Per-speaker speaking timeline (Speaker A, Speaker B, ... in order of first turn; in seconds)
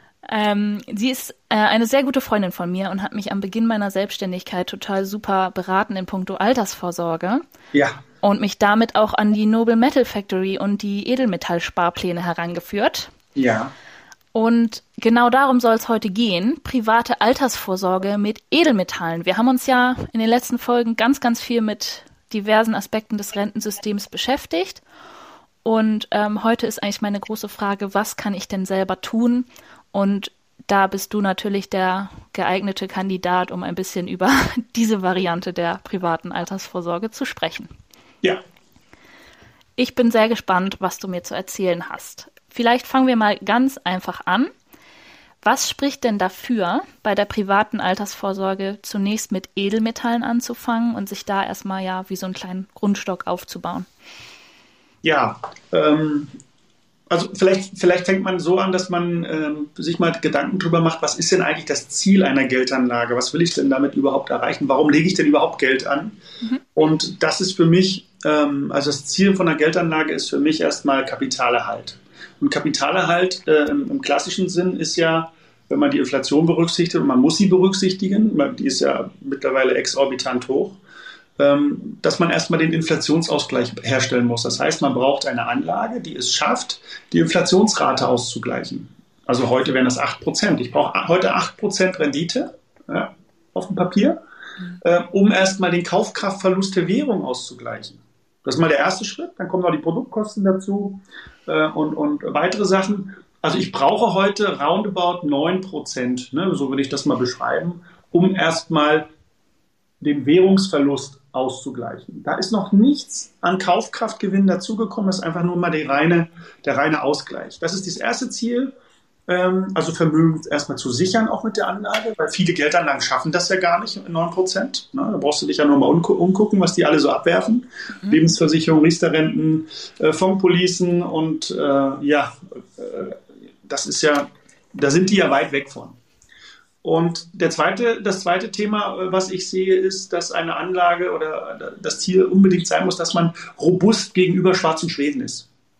Speaker A: 0.3-7.4, 8.2-13.1, 14.3-24.8, 25.6-37.7, 39.8-44.5, 45.4-53.9
Speaker B: 7.7-8.0, 13.3-13.7, 55.0-56.3, 57.1-66.2, 66.7-80.8, 81.4-94.2, 94.8-109.1, 110.0-118.7, 119.3-136.0, 136.8-145.5